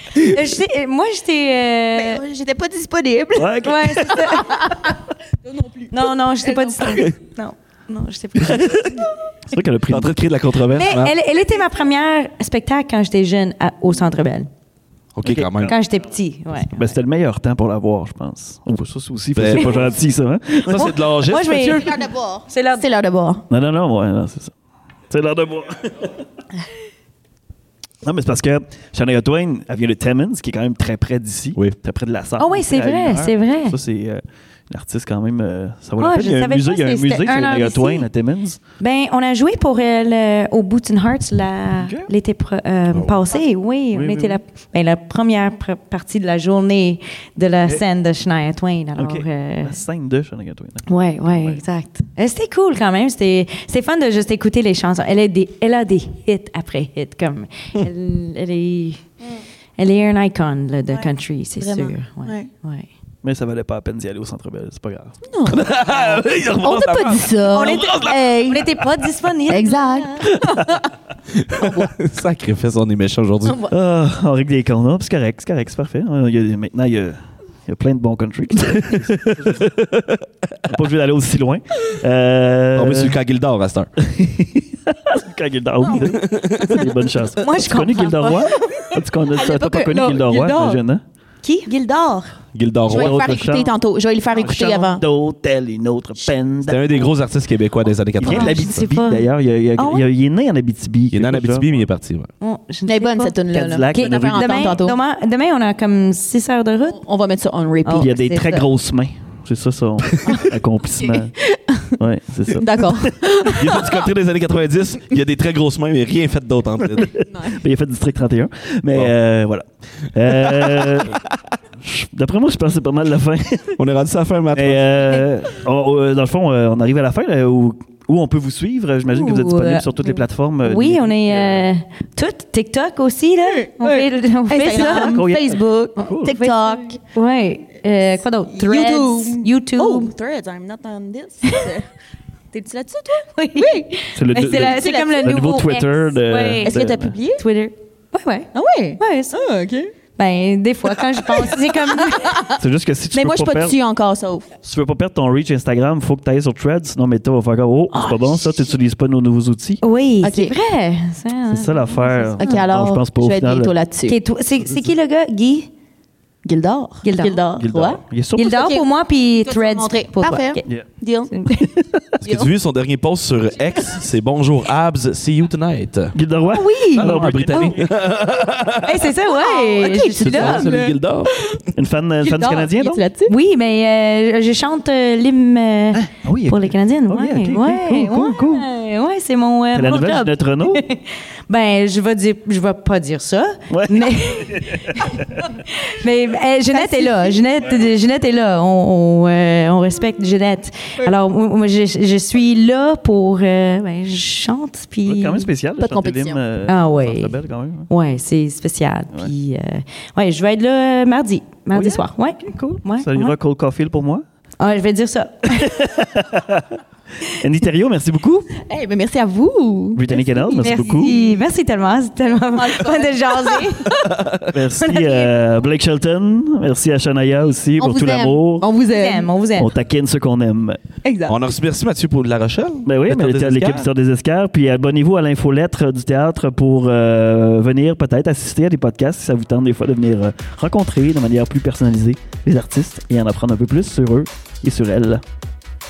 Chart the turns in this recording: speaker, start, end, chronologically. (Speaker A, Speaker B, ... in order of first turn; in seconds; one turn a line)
Speaker A: 0.2-2.2
Speaker B: 1.9-7.1
Speaker C: 3.4-4.6
Speaker A: 3.6-4.7
Speaker A: 5.9-9.0
Speaker D: 8.4-8.9
Speaker C: 9.5-10.2
Speaker D: 9.9-11.1
Speaker A: 10.7-14.5
Speaker D: 15.1-15.8
Speaker C: 15.2-15.8
Speaker A: 15.6-17.0
Speaker C: 16.6-20.9
Speaker D: 19.3-20.0
Speaker D: 20.6-22.0
Speaker A: 20.8-22.9
Speaker B: 21.6-23.4
Speaker C: 23.5-24.5
Speaker C: 25.1-26.2
Speaker C: 28.0-38.6
Speaker A: 32.4-33.8
Speaker A: 36.0-38.1
Speaker A: 38.8-49.8
Speaker C: 41.8-42.1
Speaker D: 42.9-43.2
Speaker C: 43.9-44.4
Speaker C: 49.0-51.6
Speaker A: 50.9-59.1
Speaker A: 59.8-62.9
Speaker B: 61.6-62.5
Speaker C: 63.2-65.2
Speaker B: 65.3-68.6
Speaker D: 65.5-68.3
Speaker A: 67.5-70.2
Speaker B: 69.5-70.9
Speaker D: 71.3-73.7
Speaker B: 71.6-71.9
Speaker B: 73.5-73.7
Speaker C: 73.7-79.7
Speaker D: 79.5-80.3
Speaker C: 80.7-83.2
Speaker D: 82.8-83.9
Speaker C: 84.0-91.0
Speaker B: 85.9-86.8
Speaker D: 86.0-86.9
Speaker A: 87.4-88.6
Speaker B: 88.3-90.8
Speaker A: 91.4-91.7
Speaker B: 91.7-92.4
Speaker D: 92.5-93.4
Speaker B: 92.9-95.0
Speaker C: 92.9-93.7
Speaker C: 94.3-97.1
Speaker D: 96.7-98.9
Speaker C: 98.2-101.7
Speaker A: 98.2-100.1
Speaker D: 101.1-102.3
Speaker A: 102.4-103.3
Speaker B: 102.9-105.0
Speaker C: 103.5-104.8
Speaker A: 103.9-107.0
Speaker B: 106.9-108.2
Speaker A: 107.8-108.7
Speaker C: 108.0-111.4
Speaker B: 110.2-111.9
Speaker C: 112.0-113.1
Speaker B: 112.5-114.1
Speaker D: 113.5-117.1
Speaker C: 117.0-121.2
Speaker B: 117.3-117.6
Speaker D: 120.5-121.0
Speaker C: 121.8-123.8
Speaker D: 123.8-125.0
Speaker C: 124.5-131.7
Speaker A: 129.1-135.2
Speaker B: 133.5-137.0
Speaker C: 134.7-136.4
Speaker A: 136.2-140.1
Speaker B: 138.5-141.9
Speaker B: 142.5-143.9
Speaker A: 143.3-149.4
Speaker C: 144.1-147.2
Speaker B: 144.4-145.4
Speaker B: 146.6-147.4
Speaker B: 148.5-149.9
Speaker A: 150.2-152.4
Speaker B: 151.1-152.6
Speaker C: 152.6-153.8
Speaker B: 153.1-154.5
Speaker C: 154.6-159.8
Speaker B: 157.9-158.5
Speaker A: 159.8-162.6
Speaker B: 160.2-160.6
Speaker C: 161.5-163.7
Speaker B: 162.4-164.2
Speaker A: 164.1-165.7
Speaker B: 166.4-168.9
Speaker A: 167.0-167.5
Speaker C: 167.6-168.6
Speaker A: 168.4-171.7
Speaker B: 169.5-171.7
Speaker D: 172.2-176.2
Speaker B: 172.2-172.5
Speaker C: 176.1-177.8
Speaker A: 176.5-177.8
Speaker D: 176.9-179.1
Speaker A: 178.8-180.7
Speaker B: 179.3-181.7
Speaker D: 180.2-181.4
Speaker C: 181.8-183.0
Speaker B: 182.2-183.3
Speaker A: 183.3-205.5
Speaker C: 185.9-188.7
Speaker C: 189.7-190.8
Speaker C: 193.7-195.5
Speaker B: 196.7-197.4
Speaker C: 205.1-207.9
Speaker B: 205.8-206.4
Speaker A: 206.7-213.4
Speaker C: 211.7-214.2
Speaker A: 214.6-215.9
Speaker C: 215.6-218.6
Speaker B: 218.7-221.4
Speaker C: 220.0-221.2
Speaker A: 220.6-223.9
Speaker B: 222.5-224.2
Speaker D: 224.0-224.5
Speaker C: 224.5-228.7
Speaker A: 224.8-225.3
Speaker B: 227.8-229.3
Speaker A: 228.9-229.7
Speaker C: 229.6-230.8
Speaker B: 231.0-231.4
Speaker D: 231.3-233.9
Speaker C: 232.9-245.2